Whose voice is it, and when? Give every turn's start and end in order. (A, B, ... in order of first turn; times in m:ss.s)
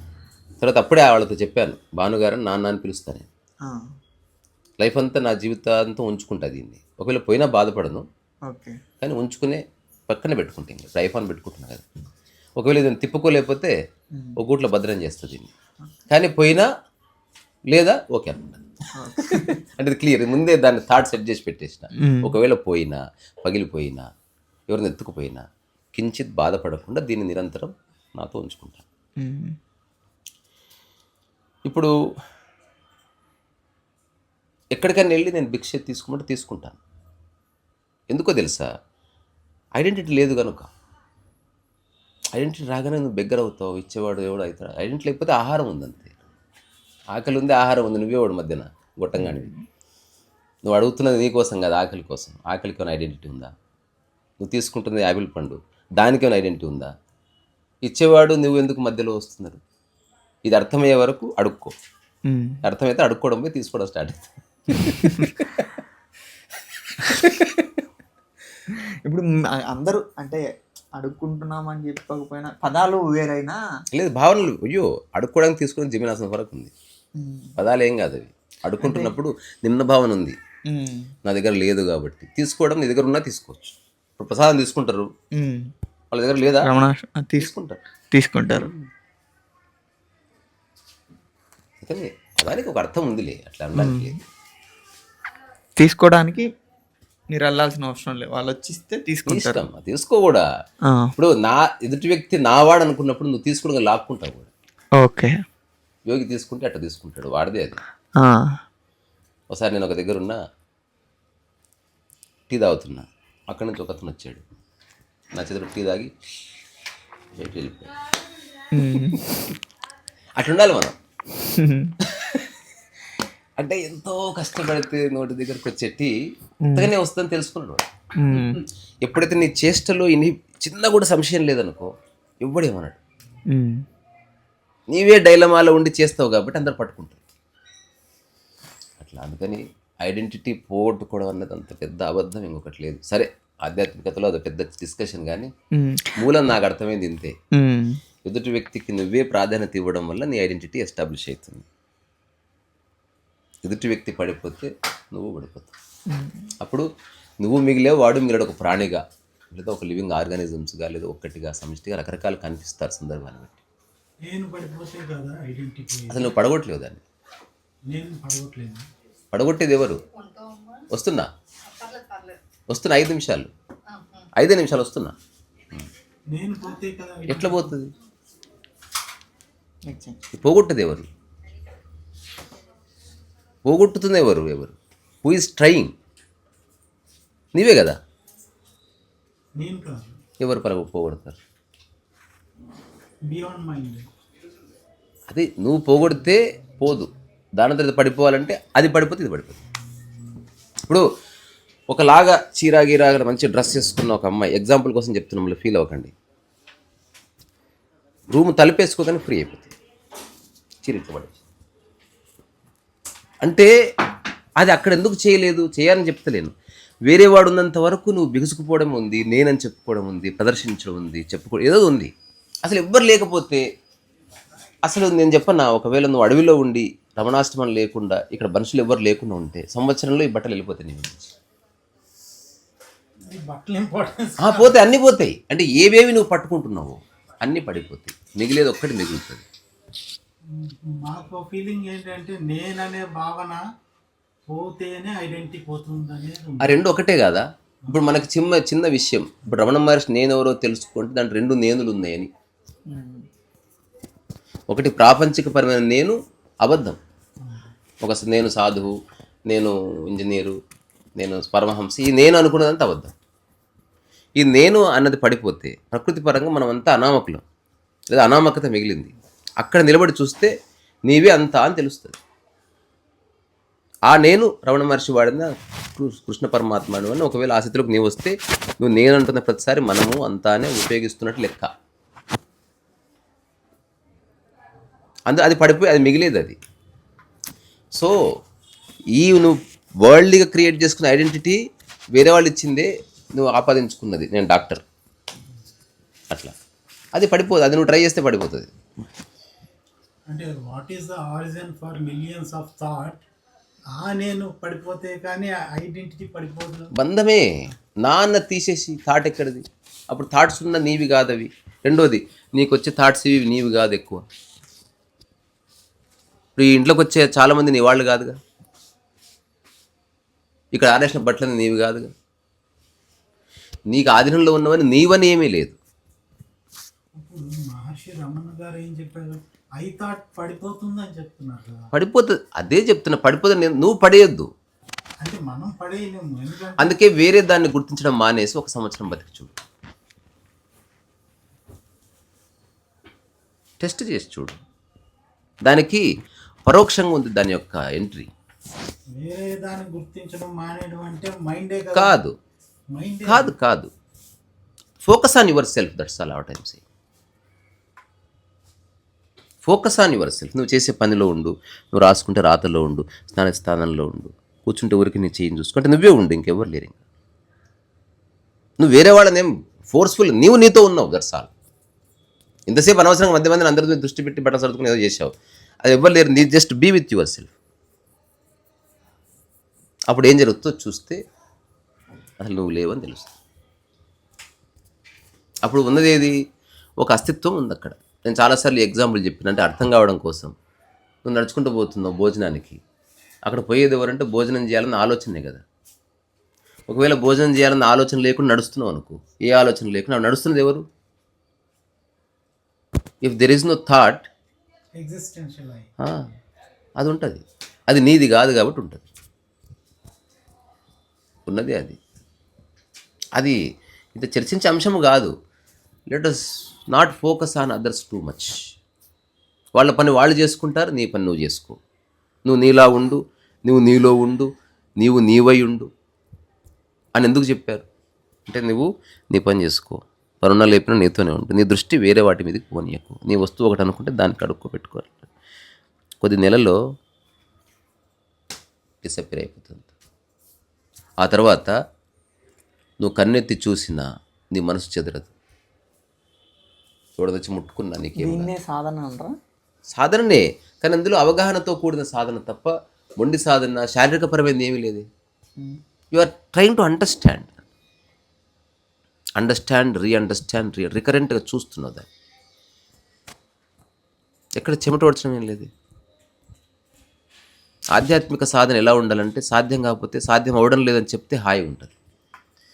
0:00.6-0:03.3 A
0:04.8-0:08.0 A
0:08.5-0:08.8 B
0:09.0-0:11.8 A
0:12.6-0:13.7 A
0:14.4-0:15.5 A
0:16.1-0:16.7 A
0:17.7-0:18.6 A
0:19.0-0:19.6 B
0:19.2-0:24.1 A
0:22.0-0:22.3 B
0:24.7-0:25.4 A
0:26.0-0:28.8 A
0:29.2-0:29.5 B
0:31.6-0:31.9 A
0:34.7-0:36.8 A
0:38.1-0:38.7 A
0:39.8-0:40.7 A
0:42.4-0:46.2 A
0:47.1-0:49.5 A
0:49.2-0:49.6 B
0:50.6-0:53.5 A
0:54.4-0:56.9 A
0:57.8-0:59.6 A
1:00.4-1:01.7 A
1:02.3-1:02.6 B
1:02.6-1:05.0 A
1:04.9-1:05.3 B
1:07.0-1:07.4 A
1:07.1-1:07.4 B
1:09.1-1:10.4 B
1:11.0-1:13.6 B
1:13.9-1:16.7 A
1:17.2-1:17.5 B
1:17.6-1:20.4 A
1:18.8-1:19.1 B
1:20.7-1:21.1 B
1:21.2-1:25.1 A
1:25.4-1:25.7 B
1:26.1-1:26.7 A
1:26.6-1:27.5 B
1:27.4-1:27.8 A
1:28.1-1:28.7 B
1:28.5-1:28.8 A
1:31.8-1:34.2 A
1:33.8-1:34.2 B
1:35.8-1:36.5 B
1:37.3-1:39.6 B
1:39.2-1:40.4 A
1:41.2-1:44.5 A
1:45.0-1:45.3 B
1:46.1-1:47.8 A
1:48.2-1:48.6 B
1:49.5-1:50.4 A
1:52.5-1:54.4 A
1:55.3-1:56.1 A
1:57.3-1:57.9 A
1:58.7-1:59.2 B
2:00.4-2:00.9 A
2:01.6-2:01.9 B
2:02.1-2:02.5 A
2:03.6-2:06.1 A
2:06.6-2:06.9 B
2:06.7-2:07.8 A
2:08.2-2:08.6 B
2:09.0-2:11.9 A
2:12.4-2:13.0 A
2:13.5-2:13.8 B
2:14.9-2:17.2 A
2:19.0-2:25.5 A
2:25.8-2:26.1 B
2:26.2-2:27.3 A
2:27.6-2:28.0 B
2:28.2-2:31.6 A
2:33.6-2:35.7 A
2:36.1-2:36.4 B
2:36.6-2:36.9 A
2:37.4-2:43.6 A
2:44.2-2:46.3 C
2:46.1-2:47.0 A
2:47.9-2:48.8 C
2:49.3-2:50.0 A
2:50.9-2:51.3 A
2:52.7-2:53.5 A
2:54.4-2:55.1 A
2:56.3-2:57.7 C
2:57.3-2:57.9 A
2:59.9-3:00.2 B
3:00.3-3:01.1 A
3:03.6-3:05.9 A
3:07.5-3:08.0 A
3:09.6-3:10.2 C
3:10.4-3:11.4 A
3:13.3-3:14.0 C
3:15.3-3:19.6 A
3:21.9-3:26.1 A
3:28.3-3:29.7 A
3:30.8-3:31.4 A
3:33.4-3:33.7 A
3:34.6-3:36.5 A
3:37.1-3:42.1 A
3:42.6-3:43.6 A
3:44.8-3:51.3 A
3:53.3-3:54.8 C
3:54.4-3:59.4 A
4:00.5-4:03.6 C
4:04.5-4:06.8 C
4:06.6-4:12.3 A
4:12.9-4:13.2 B
4:14.7-4:17.0 A
4:17.4-4:17.7 C
4:18.0-4:18.9 A
4:19.5-4:20.6 A
4:21.2-4:23.1 A
4:24.4-4:27.4 A
4:28.1-4:30.5 A
4:31.1-4:32.2 A
4:34.1-4:41.7 A
4:45.3-4:46.6 A
4:49.2-4:51.6 A
4:52.1-4:54.8 A
4:57.1-4:58.7 A
5:00.3-5:03.2 C
5:03.9-5:06.9 C
5:06.9-5:07.5 A
5:08.0-5:14.2 A
5:16.6-5:18.4 A
5:20.7-5:22.1 A
5:23.9-5:25.8 A
5:27.2-5:31.9 C
5:31.9-5:34.5 A
5:35.2-5:36.9 C
5:36.8-5:39.5 A
5:43.8-5:44.6 A
5:45.6-5:46.0 A
5:46.6-5:48.3 A
5:49.2-5:52.2 C
5:51.9-5:52.3 A
5:52.9-5:53.5 C
5:53.2-5:53.9 A
5:55.1-5:56.8 A
5:59.6-6:07.0 A
6:08.8-6:11.5 A
6:12.7-6:15.3 A
6:15.8-6:17.5 A
6:20.1-6:21.2 A
6:22.4-6:23.3 A
6:25.6-6:26.3 A
6:27.0-6:30.5 A
6:31.2-6:32.8 A
6:33.4-6:35.6 A
6:36.9-6:40.8 A
6:43.2-6:44.3 A
6:45.0-6:45.9 C
6:47.0-6:49.0 A
6:51.5-6:52.0 A
6:54.1-6:55.3 A
6:56.1-6:58.5 A
6:59.7-7:01.8 A
7:02.4-7:04.5 A
7:05.0-7:05.9 A
7:07.2-7:07.8 A
7:08.5-7:15.3 A
7:16.2-7:16.8 A
7:19.0-7:19.9 A
7:21.2-7:21.7 A
7:23.0-7:25.3 A
7:27.2-7:28.5 A
7:28.2-7:29.3 B
7:29.9-7:35.0 A
7:36.1-7:37.6 A
7:39.4-7:42.1 A
7:44.6-7:45.7 A
7:47.9-7:51.9 A